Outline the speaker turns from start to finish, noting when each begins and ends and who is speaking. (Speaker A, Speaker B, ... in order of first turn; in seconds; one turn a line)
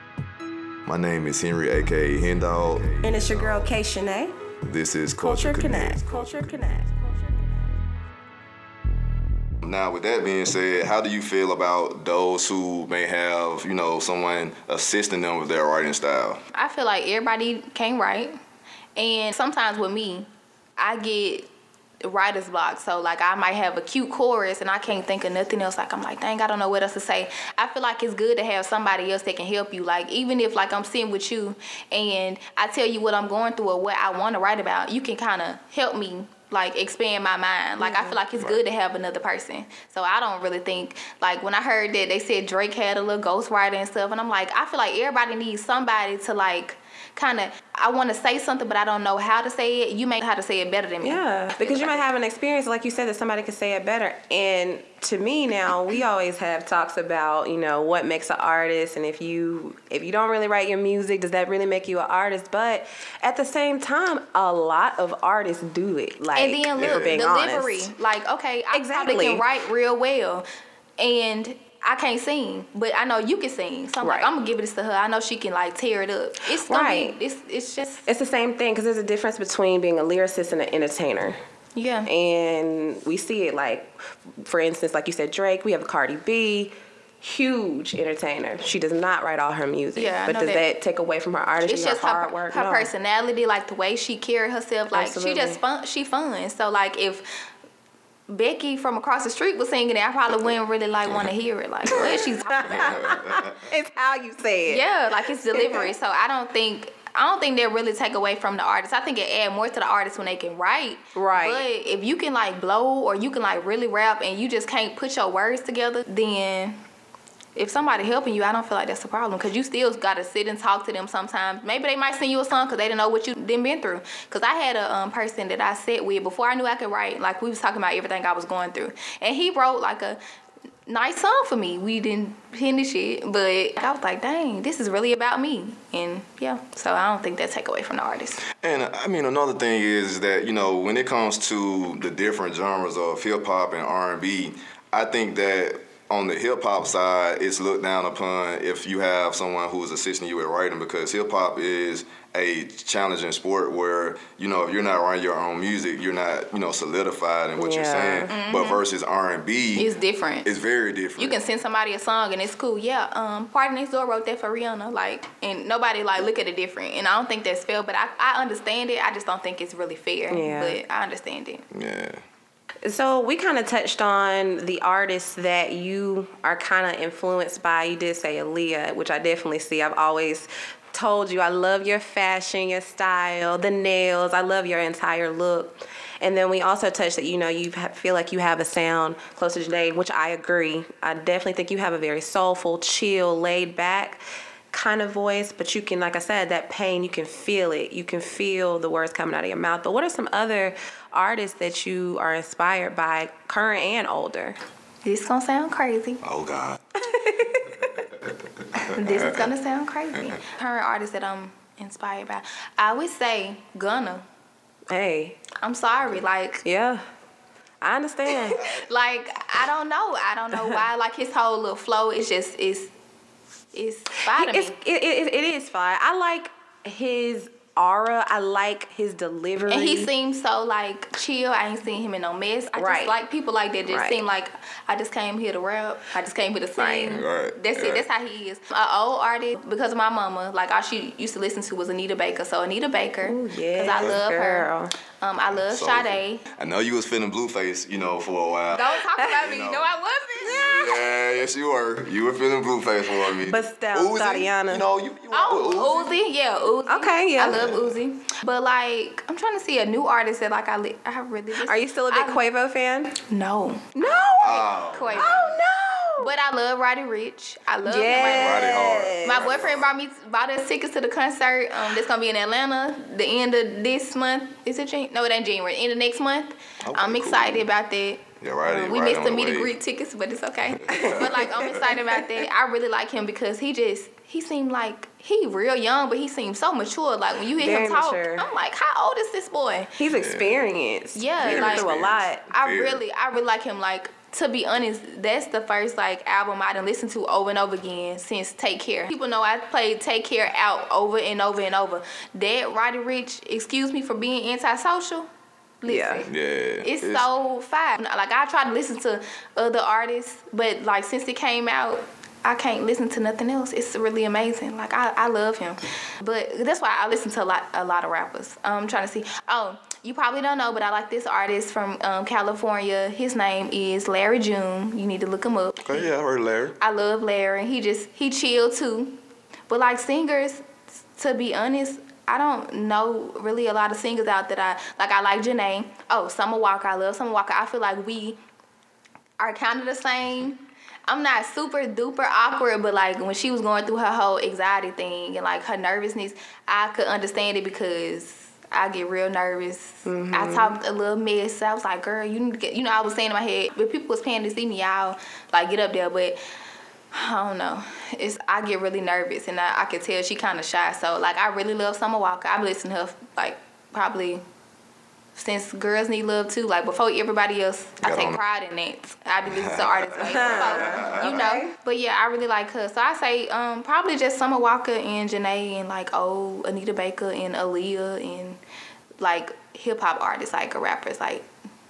Speaker A: 0.9-3.7
Speaker B: 3.0-4.3
Speaker A: 4.6-6.8
Speaker B: 5.2-7.7
Speaker A: 9.6-16.4
Speaker C: 16.5-18.4
Speaker C: 19.0-21.5
Speaker C: 22.0-52.0
Speaker B: 37.8-38.2
Speaker A: 38.4-38.6
Speaker B: 51.0-67.9
Speaker C: 66.3-70.5
Speaker A: 66.8-67.2
Speaker B: 68.7-69.5
Speaker C: 71.0-78.1
Speaker B: 74.0-74.3
Speaker B: 76.6-77.2
Speaker B: 78.1-81.4
Speaker C: 81.8-82.1
Speaker B: 82.1-92.9
Speaker C: 90.0-90.7
Speaker C: 91.7-97.3
Speaker B: 94.9-95.6
Speaker C: 98.3-102.7
Speaker B: 101.9-104.9
Speaker A: 102.6-103.6
Speaker C: 104.7-116.8
Speaker B: 105.5-105.9
Speaker B: 111.2-111.7
Speaker C: 117.5-130.2
Speaker C: 130.9-138.4
Speaker A: 138.5-159.9
Speaker B: 157.6-158.3
Speaker C: 158.3-158.8
Speaker C: 159.8-160.5
Speaker A: 160.4-161.4
Speaker C: 161.2-171.7
Speaker B: 170.3-170.8
Speaker A: 171.7-172.2
Speaker B: 172.8-204.6
Speaker C: 205.0-206.2
Speaker A: 206.2-206.8
Speaker B: 207.1-207.9
Speaker C: 208.9-214.2
Speaker A: 209.0-209.4
Speaker B: 214.9-215.4
Speaker C: 215.6-216.6
Speaker B: 216.6-217.0
Speaker B: 217.8-218.6
Speaker C: 218.5-222.9
Speaker A: 218.6-218.8
Speaker C: 223.7-224.8
Speaker B: 224.3-230.1
Speaker C: 229.7-246.4
Speaker B: 232.8-233.2
Speaker B: 233.9-234.2
Speaker B: 236.8-237.2
Speaker A: 237.1-238.1
Speaker B: 243.2-244.9
Speaker A: 243.9-244.2
Speaker A: 245.7-249.9
Speaker C: 248.7-251.0
Speaker A: 250.4-256.1
Speaker B: 253.4-254.8
Speaker C: 255.3-262.5
Speaker B: 256.9-257.6
Speaker A: 257.5-257.9
Speaker B: 261.6-263.1
Speaker C: 263.3-265.5
Speaker B: 263.9-266.3
Speaker A: 264.4-265.5
Speaker C: 266.2-268.6
Speaker B: 267.8-269.4
Speaker A: 268.1-269.9
Speaker C: 269.2-289.9
Speaker A: 276.8-277.7
Speaker A: 278.4-279.7
Speaker B: 278.7-278.9
Speaker A: 280.9-281.9
Speaker B: 280.9-282.0
Speaker B: 287.6-288.5
Speaker B: 290.0-292.4
Speaker A: 290.1-290.6
Speaker C: 291.1-305.3
Speaker A: 291.4-293.0
Speaker C: 305.8-306.3
Speaker B: 305.9-306.3
Speaker A: 306.3-307.3
Speaker C: 306.8-326.1
Speaker A: 325.8-326.8
Speaker C: 326.8-330.6
Speaker C: 331.2-338.4
Speaker C: 339.4-356.4
Speaker B: 350.1-350.8
Speaker C: 357.1-364.4
Speaker C: 365.4-378.6
Speaker A: 368.0-368.4
Speaker A: 369.5-371.4
Speaker B: 370.2-371.7
Speaker C: 379.2-381.5